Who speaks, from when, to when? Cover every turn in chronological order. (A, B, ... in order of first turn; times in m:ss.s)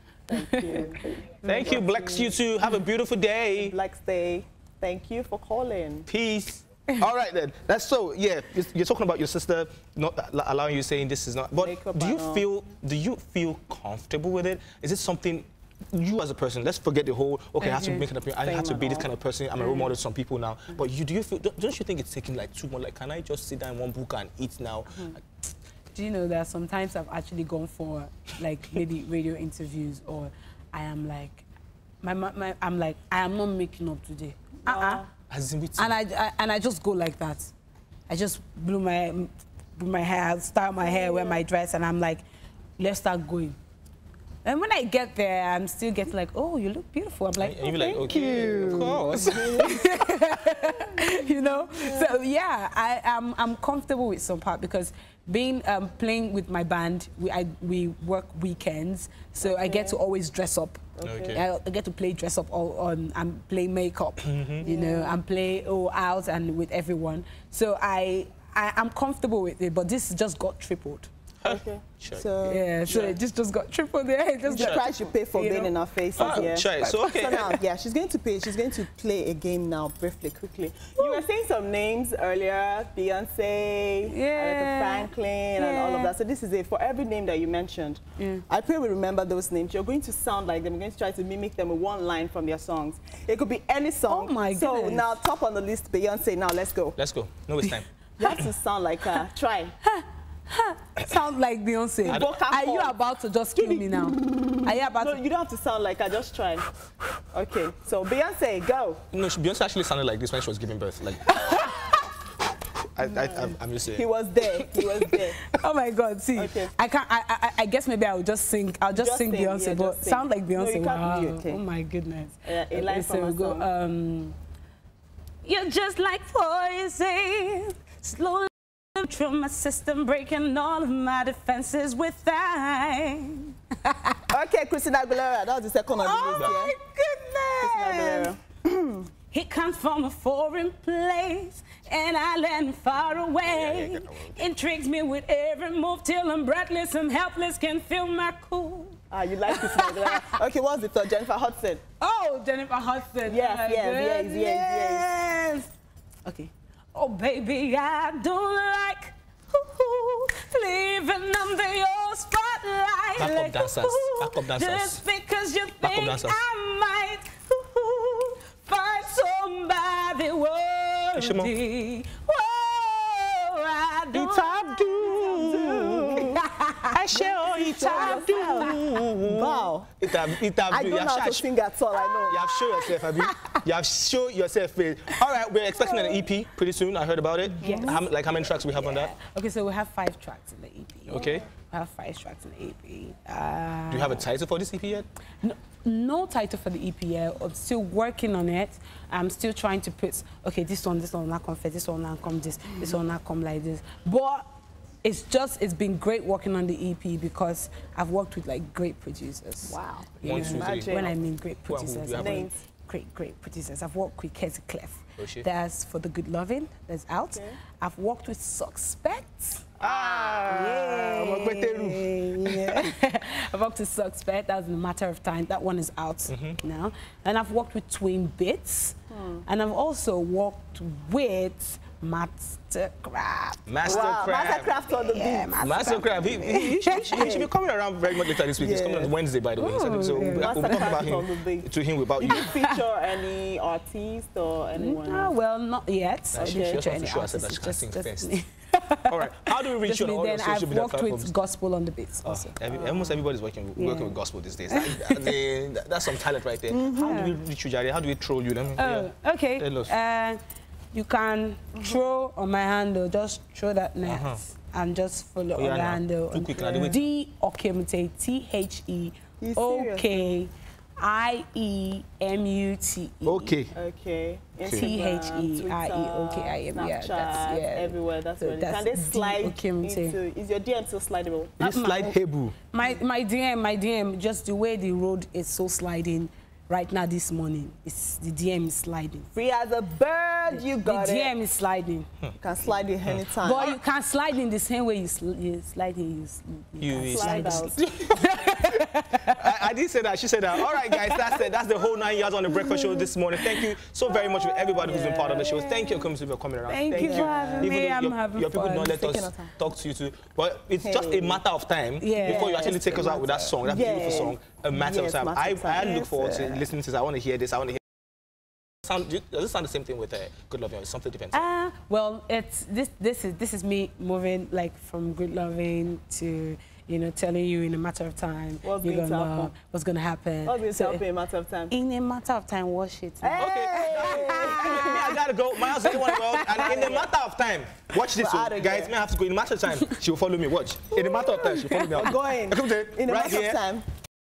0:00.3-0:02.4 A
0:00.3-0:00.9 B
0:01.4-0:03.8 C
0:01.5-0:01.8 B
0:03.5-0:06.1 A
0:06.1-0:25.2 C
0:11.6-0:12.5 A
0:17.6-0:18.1 B
0:18.4-0:19.1 A
0:19.6-0:19.9 B
0:25.9-0:31.4 B
0:32.0-0:35.0 B
0:34.6-0:35.1 A
0:35.3-0:35.9 C
0:35.8-0:37.5 B
0:38.1-0:42.2 B
0:40.8-0:41.4 A
0:42.8-0:43.6 B
0:44.4-1:11.1 B
0:47.4-0:49.7 C
0:47.6-0:52.2 A
0:59.4-1:00.0 A
1:01.0-1:01.4 A
1:01.0-1:01.4 C
1:04.2-1:04.7 C
1:04.6-1:05.2 A
1:11.4-1:12.3 C
1:11.4-1:13.2 A
1:12.4-1:16.5 B
1:12.9-1:13.2 C
1:14.5-1:37.0 A
1:14.6-1:14.8 C
1:16.2-1:17.6 C
1:24.1-1:26.2 B
1:28.2-1:28.4 B
1:34.1-1:35.1 B
1:37.0-1:37.9 C
1:38.2-1:39.8 A
1:39.8-1:45.2 B
1:42.0-1:43.0 A
1:43.5-1:46.7 A
1:47.3-1:49.0 A
1:49.1-1:51.4 C
1:51.3-1:52.1 B
1:53.0-1:54.1 C
1:53.0-1:55.4 A
1:55.4-2:04.4 B
1:56.4-1:56.7 A
1:58.9-2:01.6 A
2:02.4-2:03.7 A
2:05.4-2:14.2 B
2:14.3-2:16.8 A
2:16.0-2:18.3 B
2:17.6-2:19.1 A
2:19.3-2:30.3 B
2:23.4-2:24.4 C
2:29.1-2:31.8 A
2:32.0-2:35.7 B
2:33.3-2:35.1 A
2:36.3-2:57.0 B
2:43.2-2:45.0 C
2:45.8-2:46.4 C
2:51.2-2:51.5 C
2:54.1-2:56.3 C
2:55.0-2:56.5 A
2:56.9-3:01.5 C
2:57.1-2:59.9 A
2:57.7-2:58.7 B
3:00.7-3:02.5 A
3:02.3-3:09.1 C
3:03.0-3:03.6 B
3:05.8-3:06.2 B
3:07.6-3:14.3 B
3:07.6-3:08.0 A
3:11.1-3:11.5 C
3:13.9-3:15.1 C
3:15.4-3:24.5 B
3:25.0-3:39.7 B
3:29.7-3:31.2 A
3:30.2-3:31.1 C
3:31.7-3:32.5 C
3:32.1-3:32.6 A
3:35.2-3:35.5 C
3:37.3-3:37.6 A
3:39.8-3:42.9 C
3:39.8-3:40.7 A
3:40.5-3:57.3 B
3:46.3-3:46.6 C
3:49.1-3:49.4 A
3:53.7-3:54.7 C
3:53.8-3:55.9 A
3:55.6-4:02.6 C
3:56.9-3:57.5 A
3:58.6-3:59.1 A
3:59.6-4:01.0 B
4:00.2-4:05.3 A
4:04.8-4:13.1 B
4:06.3-4:08.4 C
4:06.4-4:06.8 A
4:09.1-4:11.3 C
4:12.2-4:19.9 C
4:13.8-4:14.2 B
4:14.7-4:15.4 B
4:16.7-4:17.3 A
4:16.9-4:17.4 B
4:18.8-4:20.4 B
4:20.9-4:33.6 B
4:24.0-4:24.4 C
4:25.6-4:27.0 C
4:29.4-4:30.4 A
4:33.2-4:33.7 C
4:33.7-4:41.8 A
4:34.6-4:34.9 C
4:34.7-4:40.2 B
4:41.6-4:42.6 C
4:41.7-4:42.1 B
4:42.7-4:49.3 B
4:49.4-4:51.3 A
4:50.5-4:52.1 B
4:52.4-4:53.8 A
4:53.4-4:59.4 B
4:56.8-5:17.8 C
4:57.1-4:57.8 A
5:00.9-5:01.4 B
5:02.5-5:03.6 B
5:04.2-5:06.0 B
5:04.7-5:05.8 A
5:06.7-5:09.1 B
5:06.9-5:07.9 A
5:08.8-5:09.6 A
5:10.8-5:11.4 A
5:12.0-5:14.3 B
5:12.2-5:13.0 A
5:13.6-5:16.6 A
5:18.8-5:21.5 C
5:21.3-5:31.0 B
5:28.6-5:29.5 A
5:30.4-5:31.8 A
5:31.7-5:35.1 B
5:33.2-5:35.2 A
5:33.4-5:43.6 C
5:35.8-5:36.9 B
5:36.1-5:37.1 A
5:38.1-5:39.0 A
5:41.9-5:43.8 A